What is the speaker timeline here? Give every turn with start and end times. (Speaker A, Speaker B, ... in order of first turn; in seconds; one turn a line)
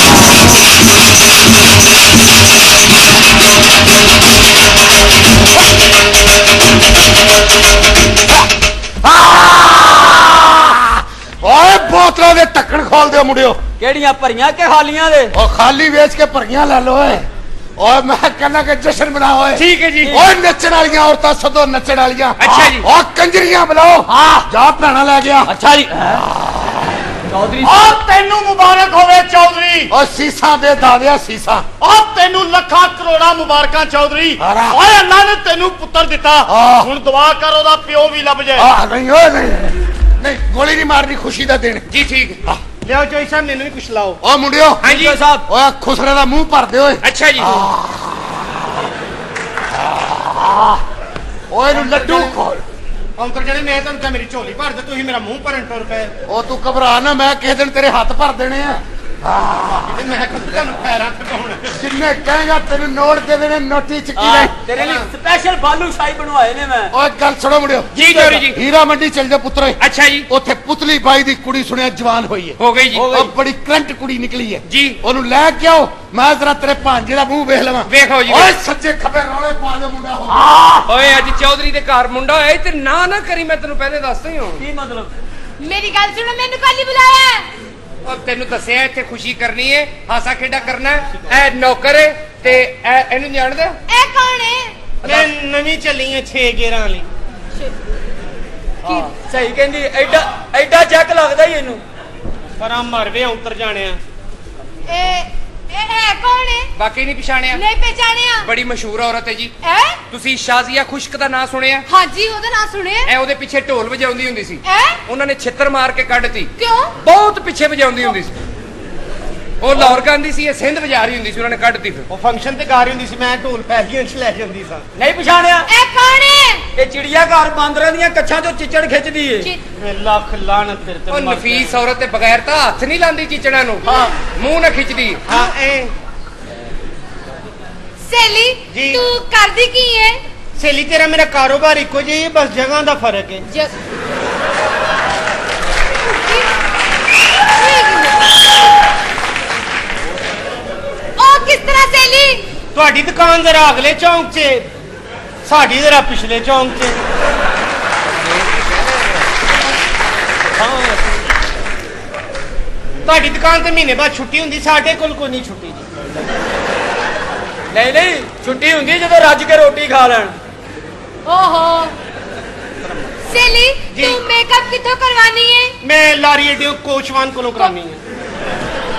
Speaker A: 9.0-13.6
Speaker B: 13.8-15.3
Speaker A: 15.3-25.5
Speaker C: 19.7-20.2
Speaker C: 22.4-22.9
Speaker B: 24.1-24.4
Speaker B: 25.5-26.2
Speaker A: 26.1-26.9
Speaker B: 27.3-28.0
Speaker D: 27.6-29.9
Speaker A: 29.9-31.7
Speaker E: 31.8-32.6
Speaker D: 31.9-34.4
Speaker A: 34.4-34.8
Speaker E: 34.7-37.2
Speaker D: 35.0-36.4
Speaker A: 36.5-36.9
Speaker D: 37.1-38.6
Speaker A: 38.6-41.9
Speaker C: 41.9-42.4
Speaker E: 42.8-44.2
Speaker A: 44.2-44.9
Speaker C: 44.8-45.2
Speaker B: 44.8-45.5
Speaker A: 45.5-48.6
Speaker C: 47.0-47.7
Speaker A: 49.8-50.8
Speaker A: 51.5-52.6
Speaker E: 51.7-52.4
Speaker E: 53.2-56.1
Speaker A: 56.3-60.0
Speaker E: 59.9-61.7
Speaker A: 61.8-64.5
Speaker B: 64.2-66.9
Speaker E: 64.8-65.1
Speaker A: 66.9-67.9
Speaker B: 68.0-68.4
Speaker C: 68.0-68.6
Speaker A: 68.4-80.5
Speaker C: 69.8-70.3
Speaker C: 72.6-73.1
Speaker B: 72.9-73.3
Speaker C: 74.7-75.0
Speaker C: 77.9-78.6
Speaker B: 80.3-80.8
Speaker C: 80.9-84.6
Speaker B: 84.6-85.1
Speaker F: 85.6-87.5
Speaker C: 88.0-93.8
Speaker F: 93.9-94.9
Speaker C: 95.0-95.3
Speaker E: 95.0-97.1
Speaker B: 98.9-101.8
Speaker E: 102.6-104.0
Speaker F: 104.9-106.7
Speaker C: 106.8-107.6
Speaker F: 107.5-108.5
Speaker C: 108.4-109.5
Speaker F: 109.6-110.0
Speaker C: 110.1-111.9
Speaker F: 111.9-113.1
Speaker C: 113.1-118.3
Speaker F: 114.6-115.0
Speaker F: 116.6-116.9
Speaker C: 119.6-122.1
Speaker E: 122.1-124.9
Speaker B: 125.0-125.7
Speaker F: 125.7-126.7
Speaker B: 126.8-129.5
Speaker E: 129.8-131.8
Speaker C: 131.1-135.2
Speaker F: 133.8-134.2
Speaker E: 135.3-135.9
Speaker F: 138.1-140.2
Speaker E: 138.7-139.1
Speaker E: 140.6-143.4
Speaker F: 143.5-143.7
Speaker F: 146.2-146.5
Speaker F: 147.6-148.3
Speaker F: 151.2-152.5
Speaker E: 152.8-154.7
Speaker E: 155.4-157.0
Speaker E: 160.6-161.0
Speaker E: 163.1-165.9
Speaker B: 167.7-170.3
Speaker F: 171.2-171.9
Speaker E: 172.8-173.1
Speaker F: 173.3-175.8
Speaker E: 173.9-174.2
Speaker E: 175.8-178.0